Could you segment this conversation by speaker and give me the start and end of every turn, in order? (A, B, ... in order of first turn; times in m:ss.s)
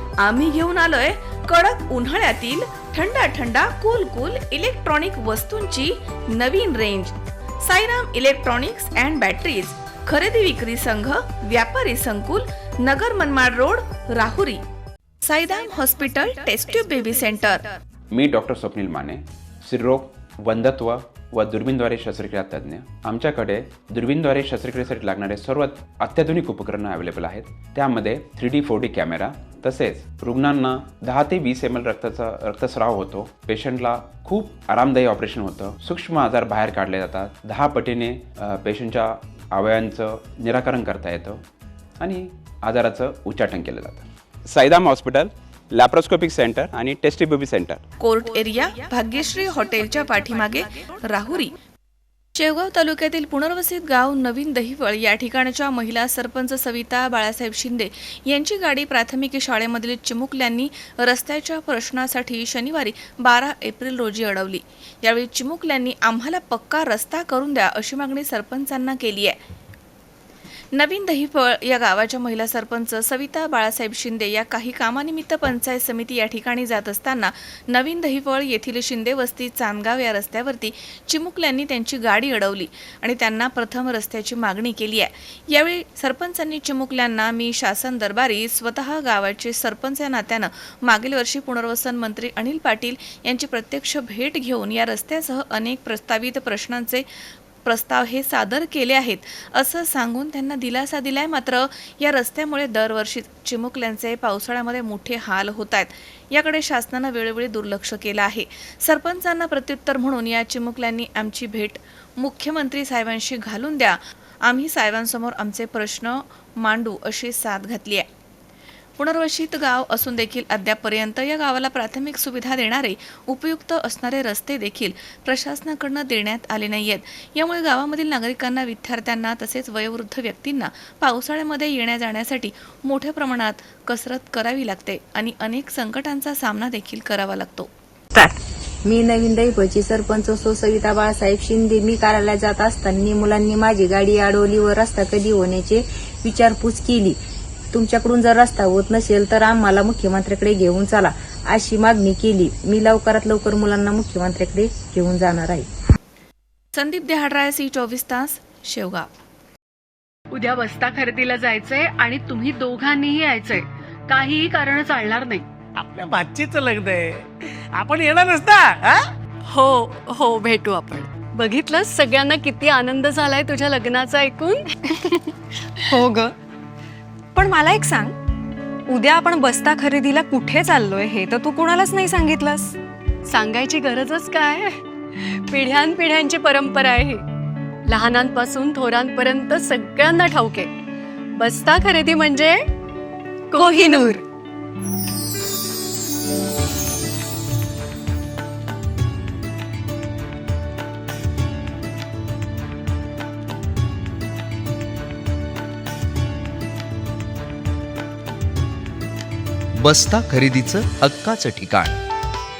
0:00.2-0:14.6 A
0:15.2-0:17.7 A
0:18.1-0:41.4 B
0:42.0-0:47.8 B
0:48.0-0:51.5 A
0:52.4-1:09.4 A
1:10.7-1:37.1 A
1:37.6-1:58.1 A
1:59.0-2:17.7 A
2:18.1-2:27.2 C
2:27.7-2:35.7 C
2:36.7-2:39.1 A
2:40.3-2:45.5 D
2:45.8-2:49.1 E
2:49.5-2:54.7 F
2:55.9-2:56.3 G
2:57.3-2:58.2 G
2:58.9-3:02.8 G
3:03.2-3:07.2 F
3:07.9-3:10.7 F
3:11.4-3:12.6 F
3:13.5-3:14.2 F
3:29.8-3:32.0 H